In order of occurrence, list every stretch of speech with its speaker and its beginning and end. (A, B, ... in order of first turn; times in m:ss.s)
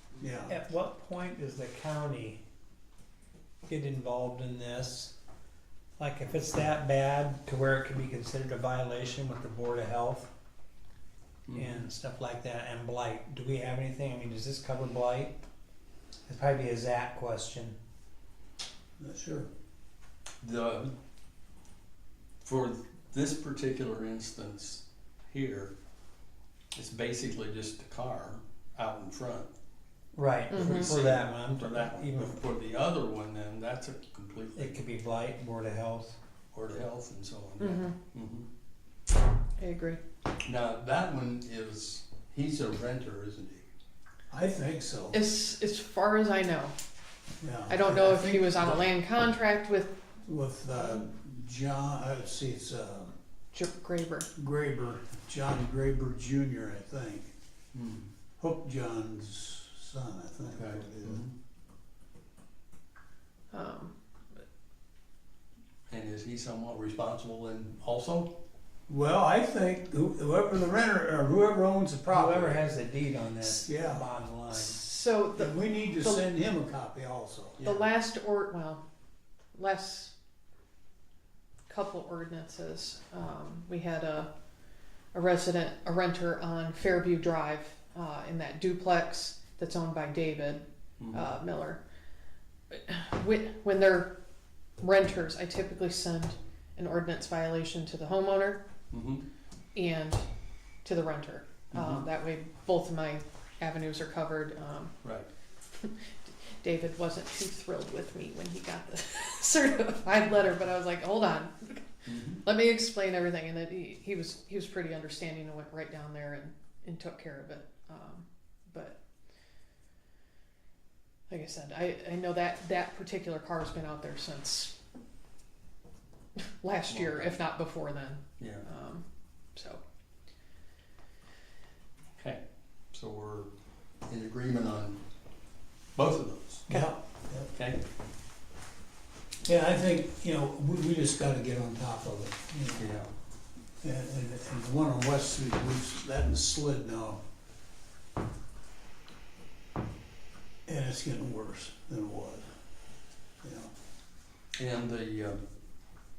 0:00.2-0:00.5 A
0:00.5-0:02.4 B
0:03.6-0:05.1 B
0:06.0-0:10.3 B
0:11.5-0:11.8 C
0:11.5-0:15.4 B
0:16.3-0:17.8 B
0:19.0-0:19.5 A
0:20.4-0:20.9 C
0:22.4-0:25.7 C
0:26.7-0:29.5 C
0:30.1-0:32.4 B
0:30.5-0:30.9 D
0:30.5-0:34.8 C
0:34.6-0:36.2 B
0:36.5-0:38.5 C
0:37.6-0:37.9 D
0:39.6-0:40.0 D
0:40.4-0:43.6 C
0:44.3-0:45.2 A
0:45.1-0:46.7 D
0:47.4-0:48.9 A
0:47.7-0:50.0 D
0:50.2-0:53.1 A
0:53.5-0:54.3 D
0:54.4-0:57.3 A
0:57.7-0:58.1 C
0:58.4-1:01.2 A
1:00.5-1:01.3 C
1:03.5-1:04.4 D
1:05.9-1:08.3 C
1:08.9-1:12.6 A
1:12.1-1:14.8 B
1:13.6-1:14.0 A
1:14.5-1:16.2 D
1:15.4-1:17.8 A
1:17.6-1:18.8 D
1:19.5-1:20.1 D
1:21.7-1:24.3 D
1:25.1-1:31.8 D
1:31.0-1:31.3 C
1:32.7-1:34.1 D
1:34.8-1:38.6 D
1:38.9-1:39.2 C
1:39.7-1:40.2 D
1:40.8-1:44.9 D
1:41.7-1:42.1 C
1:45.0-1:45.3 C
1:45.7-1:59.0 D
1:52.0-1:52.4 C
2:01.3-2:04.7 D
2:06.6-2:09.0 D
2:06.9-2:07.4 C
2:08.4-2:08.7 C
2:09.5-2:09.8 D
2:12.9-2:13.5 C
2:14.1-2:15.0 C
2:15.9-2:16.7 C
2:16.7-2:16.9 D
2:16.7-2:17.5 A
2:17.5-2:17.8 C
2:19.4-2:22.9 A
2:22.8-2:23.1 C
2:23.8-2:27.2 A
2:30.7-2:32.5 A
2:33.4-2:33.7 A
2:34.6-2:35.4 C